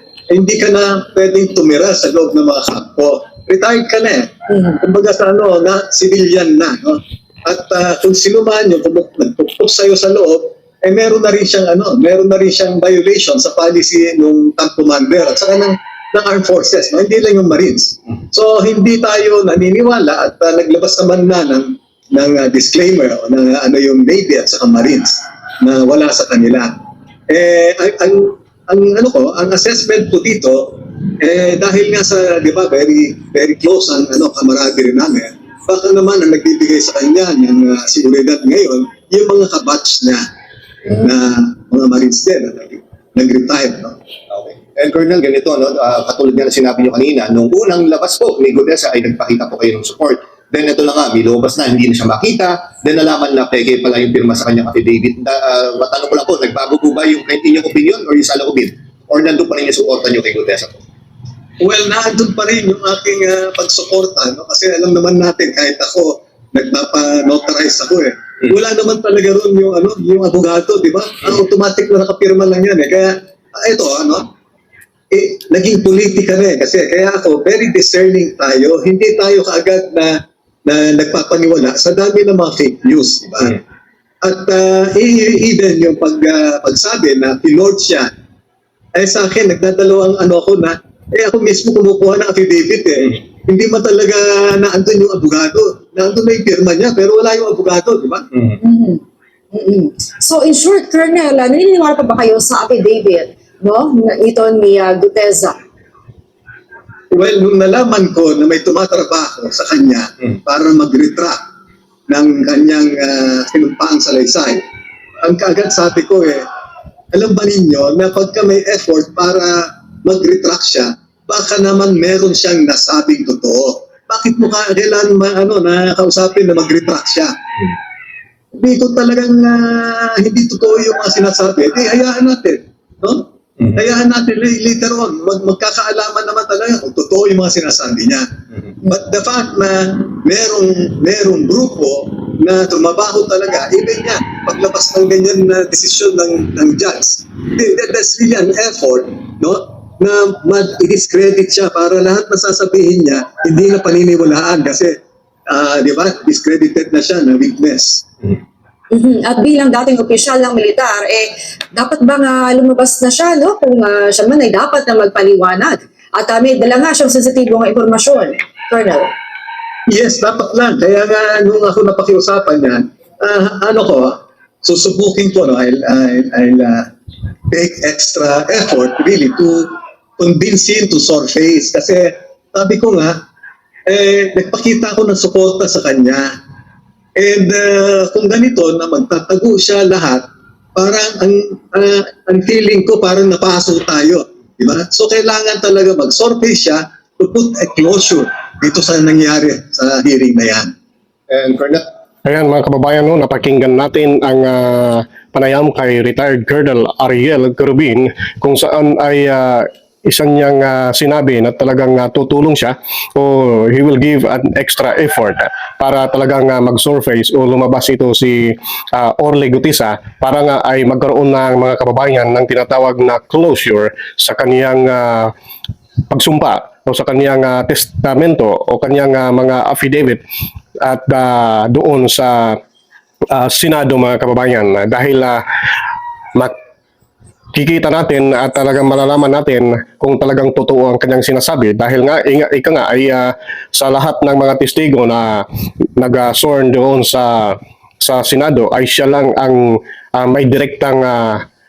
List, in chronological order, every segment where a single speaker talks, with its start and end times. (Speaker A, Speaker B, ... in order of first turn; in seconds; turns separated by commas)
Speaker A: 0.3-26.7, Speaker B: 4.5-4.8, Speaker A: 27.3-40.2, Speaker A: 40.9-44.0, Speaker C: 44.3-60.8, Speaker A: 61.6-74.2, Speaker A: 75.1-80.1, Speaker A: 80.7-83.6, Speaker A: 84.2-88.1, Speaker A: 88.9-98.3, Speaker B: 98.6-105.6, Speaker A: 107.1-111.4, Speaker A: 112.1-114.6, Speaker A: 115.2-116.5, Speaker A: 117.1-127.3, Speaker A: 128.5-138.3, Speaker A: 138.8-154.9, Speaker A: 155.5-158.0, Speaker B: 158.9-169.1, Speaker A: 169.9-176.9, Speaker A: 177.5-183.2, Speaker A: 183.9-186.3, Speaker A: 187.2-200.7, Speaker C: 201.3-201.8, Speaker D: 202.2-225.3, Speaker D: 226.1-230.2, Speaker D: 230.8-232.6, Speaker D: 233.3-235.4, Speaker D: 237.5-245.4, Speaker D: 246.0-251.4